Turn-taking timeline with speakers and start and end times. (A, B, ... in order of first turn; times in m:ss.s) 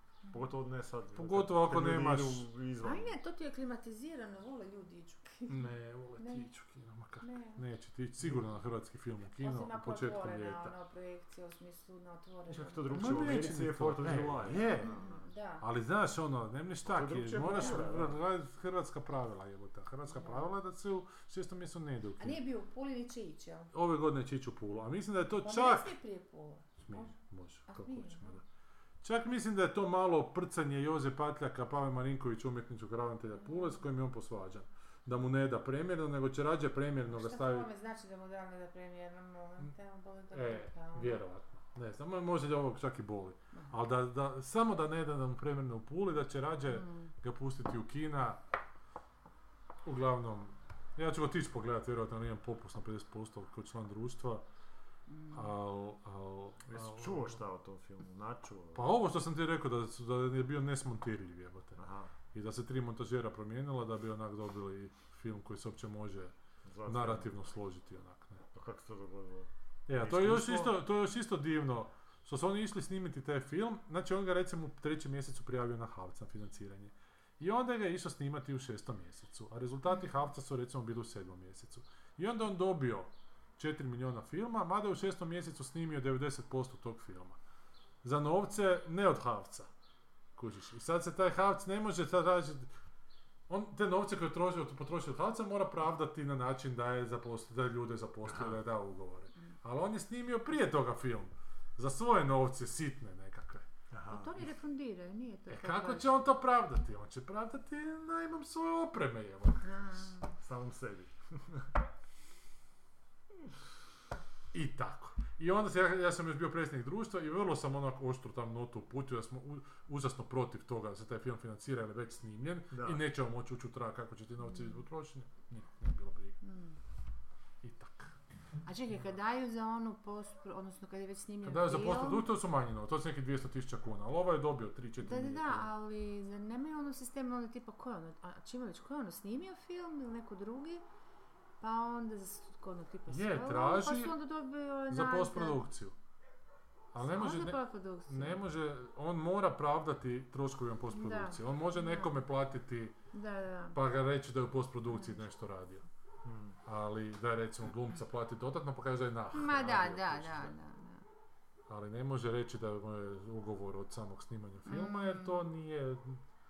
0:00.3-0:03.2 A
0:01.2-0:02.5 B
0:02.8-0:06.5 C
0:05.5-0:10.8 B
0:07.2-0:07.6 C
0:09.4-0:13.5 C
0:12.5-0:15.3 A
0:12.9-0:14.9 B
0:14.8-0:15.6 C
0:15.6-0:22.4 B
0:16.9-0:18.2 A
0:17.5-0:17.9 C
0:20.1-0:20.5 C
0:22.2-0:23.7 C
0:23.7-0:25.9 B
0:25.4-0:27.1 C
0:26.8-0:28.4 B
0:27.7-0:28.4 C
0:29.0-0:37.7 B
0:33.4-0:33.8 C
0:37.1-0:41.2 C
0:40.3-0:48.4 B
0:46.7-0:47.1 C
0:49.8-0:54.4 B
0:55.1-0:55.5 C
0:55.3-0:57.4 B
0:56.7-0:59.0 A
0:58.8-1:01.8 B
1:01.8-1:02.2 A
1:02.3-1:06.3 B
1:06.6-1:07.4 A
1:06.9-1:08.4 B
1:08.5-1:10.8 A
1:09.9-1:27.4 B
1:28.0-1:29.7 B
1:30.4-1:32.7 B
1:33.5-1:43.7 B
1:38.3-1:38.6 A
1:43.9-1:44.5 A
1:44.1-1:46.2 C
1:45.5-1:49.8 B
1:49.6-1:50.3 C
1:50.4-1:51.7 A
1:54.5-2:06.4 B
2:02.7-2:03.0 A
2:06.4-2:06.8 C
2:07.6-2:08.2 B
2:08.7-2:12.3 C
2:11.4-2:15.7 B
2:15.0-2:20.8 C
2:21.6-2:25.6 C
2:23.1-2:24.2 B
2:24.9-2:26.0 B
2:26.9-2:33.0 B
2:27.0-2:28.4 C
2:30.9-2:32.2 C
2:33.1-2:33.8 C
2:33.7-2:35.9 B
2:34.9-2:35.3 C
2:36.2-2:36.6 A
2:36.7-2:40.5 B
2:39.3-2:41.0 C
2:41.7-2:46.2 B
2:44.7-2:45.4 C